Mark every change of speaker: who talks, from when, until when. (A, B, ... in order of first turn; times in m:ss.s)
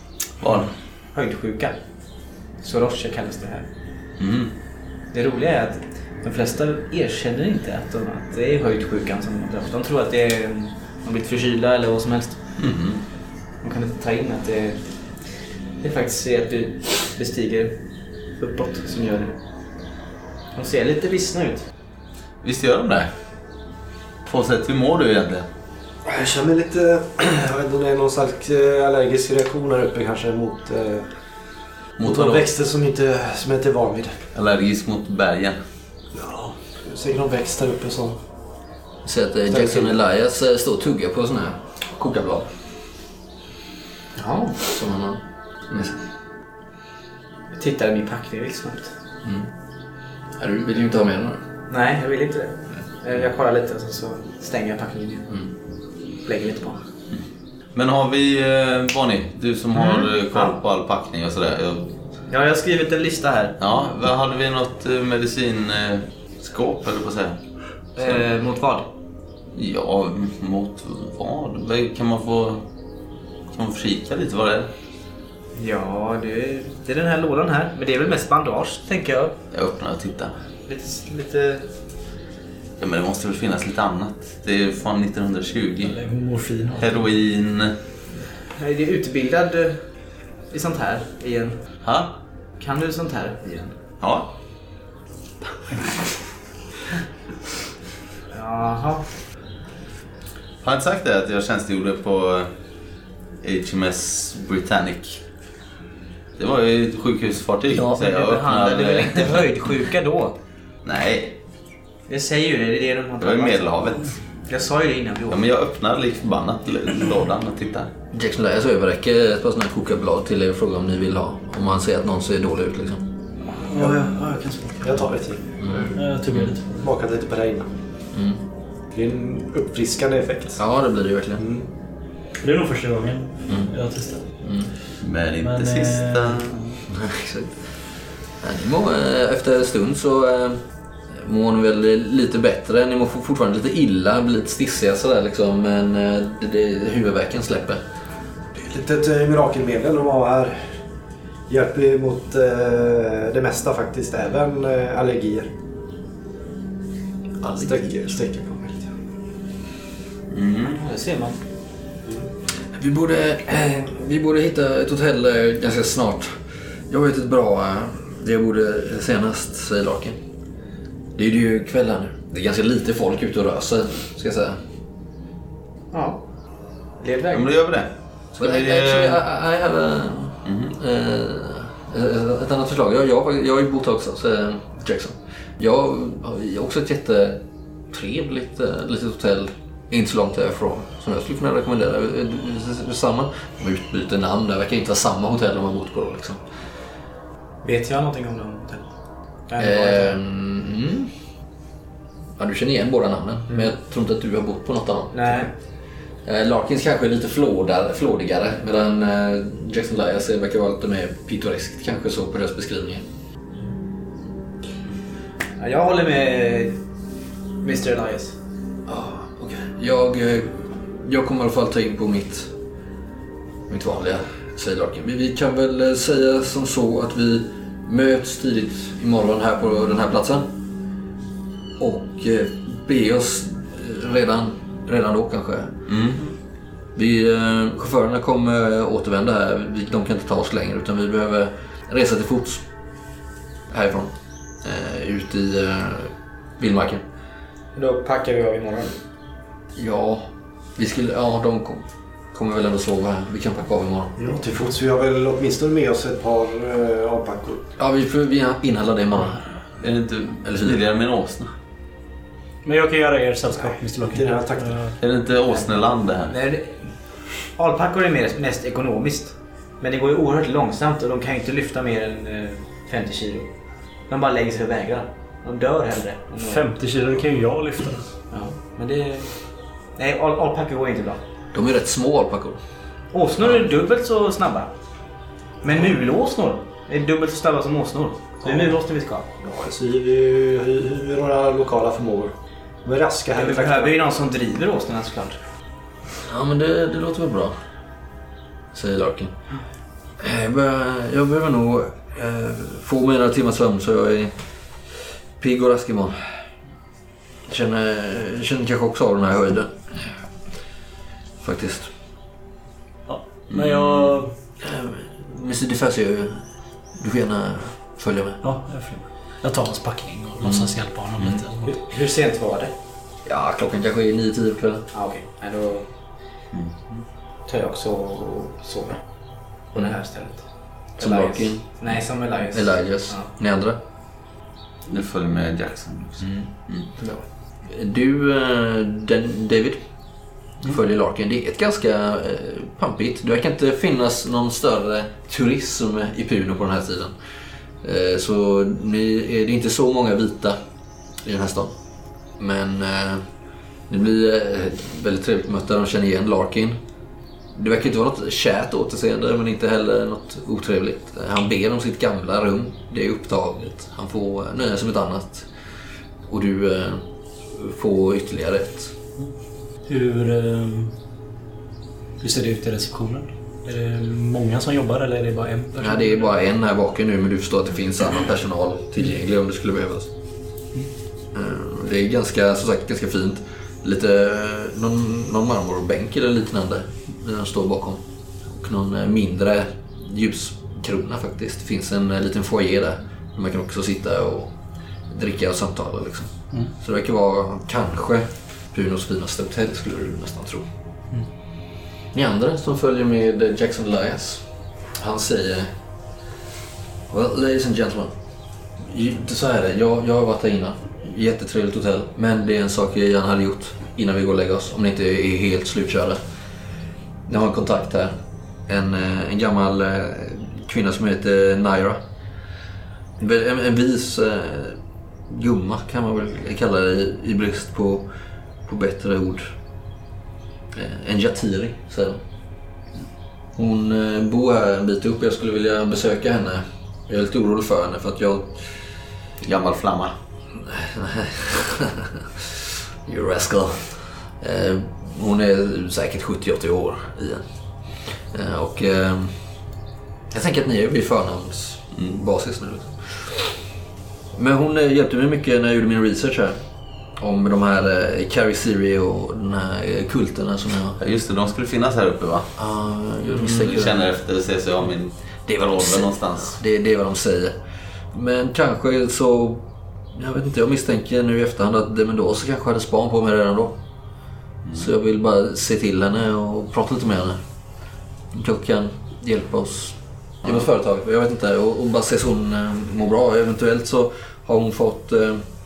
0:00.4-0:00.7 A
0:01.1-0:01.8 B
0:02.6-0:03.7 B
0:04.2-0:04.6 A
0:05.1-0:12.4 B
0:12.6-0:13.0 A
0:13.6-0:19.4 B
0:20.5-0:21.7 B
0:22.4-0:23.2 A
0:24.2-0:25.5 A
0:26.0-0:31.1 C
0:32.0-0:32.5 A
0:32.0-0:34.2 C
0:34.3-0:35.6 A
0:36.1-0:38.2 C
0:39.0-0:42.5 D
0:39.5-0:40.0 C
0:44.2-0:44.7 B
0:44.7-0:46.0 D
0:47.5-0:48.9 B
0:49.2-0:49.5 D
0:50.4-0:51.4 D
0:51.7-0:55.4 B
0:56.2-0:56.8 B
0:57.8-1:01.9 A
0:59.7-1:00.6 B
1:02.3-1:03.6 B
1:03.6-1:07.4 A
1:08.0-1:08.9 B
1:09.5-1:12.7 A
1:13.5-1:14.7 A
1:15.6-1:19.4 B
1:19.5-1:20.4 A
1:20.7-1:21.7 B
1:22.8-1:26.0 A
1:25.8-1:27.1 E
1:26.8-1:27.8 A
1:28.4-1:29.9 B
1:30.5-1:31.6 B
1:31.8-1:32.2 A
1:32.6-1:33.8 B
1:34.0-1:34.3 A
1:38.3-1:39.2 B
1:40.6-1:42.5 A
1:43.4-1:45.2 A
1:46.4-1:49.4 A
1:47.8-1:50.4 B
1:50.8-1:51.4 A
1:52.1-1:55.4 B
1:53.2-1:54.3 A
1:55.3-1:57.9 A
1:58.1-2:03.0 D
2:03.7-2:06.0 C
2:03.7-2:05.0 E
2:05.6-2:06.6 D
2:05.9-2:06.9 E
2:06.8-2:07.7 C
2:08.1-2:08.4 D
2:08.9-2:10.6 C
2:10.6-2:11.5 D
2:11.4-2:11.7 C
2:12.4-2:14.3 E
2:14.4-2:14.7 D
2:15.0-2:16.8 A
2:15.4-2:16.4 E
2:16.9-2:17.8 D
2:18.4-2:27.8 D
2:28.6-2:30.7 C
2:31.5-2:35.5 C
2:37.4-2:37.9 D
2:37.6-2:38.9 C
2:40.3-2:40.7 A
2:40.6-2:41.4 B
2:42.1-2:42.3 C
2:42.7-2:50.2 D
2:51.2-2:54.6 D
2:55.9-2:56.2 B
2:57.0-2:57.5 B
2:57.3-2:59.2 A
2:58.4-3:16.5 D
3:00.5-3:00.7 A
3:17.6-3:18.9 B
3:19.5-3:20.2 B
3:19.6-3:21.1 D
3:22.4-3:25.5 D
3:25.1-3:25.5 B
3:26.2-3:33.0 D
3:35.6-3:36.8 B
3:37.6-3:38.4 B
3:38.9-3:42.5 D
3:43.7-3:50.5 D
3:51.8-3:55.7 D
3:55.9-3:56.2 A
3:57.0-4:02.7 D
4:03.7-4:07.0 D
4:07.8-4:09.0 B
4:09.8-4:14.2 D
4:14.2-4:17.6 C
4:17.8-4:19.4 D
4:19.8-4:21.5 A
4:20.4-4:20.8 D
4:22.6-4:25.0 E
4:23.6-4:24.8 C
4:25.0-4:26.4 A
4:25.5-4:33.5 B
4:34.1-4:36.7 B
4:36.4-4:38.1 E
4:38.3-4:41.2 B
4:41.5-4:42.6 D
4:43.1-4:44.7 B
4:45.6-4:49.3 B
4:48.4-4:48.8 C
4:49.4-4:54.0 C
4:53.4-4:55.4 B
4:56.2-4:57.6 D
4:58.7-4:59.4 D
5:00.2-5:04.4 D
5:04.9-5:06.2 D
5:07.5-5:09.8 D
5:11.4-5:11.9 D
5:13.1-5:14.3 E
5:14.6-5:16.4 D
5:17.0-5:18.4 D
5:18.4-5:21.8 E
5:21.7-5:22.7 B
5:23.2-5:24.9 D
5:24.9-5:25.9 B
5:27.5-5:29.0 B
5:29.7-5:33.3 B
5:31.0-5:31.8 D
5:32.5-5:33.8 D
5:34.9-5:36.9 A
5:37.0-5:37.2 C
5:37.7-5:39.8 D
5:40.6-5:47.2 D
5:47.8-5:50.6 D
5:51.2-5:51.8 D
5:52.4-5:53.2 D
5:53.9-5:56.8 D
5:57.5-6:05.5 D
6:06.3-6:08.9 D
6:09.8-6:11.0 E
6:12.2-6:16.3 E
6:15.8-6:20.1 D
6:21.3-6:34.5 D
6:35.1-6:40.7 D
6:42.1-6:45.7 D
6:47.1-6:48.2 D
6:48.8-6:56.2 D
6:57.3-7:02.0 D
7:03.2-7:08.1 D
7:08.6-7:09.6 D
7:10.7-7:12.2 D
7:13.6-7:18.7 D
7:19.4-7:20.1 A
7:20.6-7:27.4 D
7:28.0-7:29.4 D
7:30.3-7:33.6 D
7:32.0-7:32.2 A
7:34.3-7:36.6 D
7:37.2-7:41.0 D
7:41.0-7:42.6 A
7:42.6-7:44.1 D
7:43.3-7:46.6 A
7:45.5-7:47.6 D
7:48.1-7:53.8 D
7:54.7-7:57.4 D
7:58.3-8:05.4 D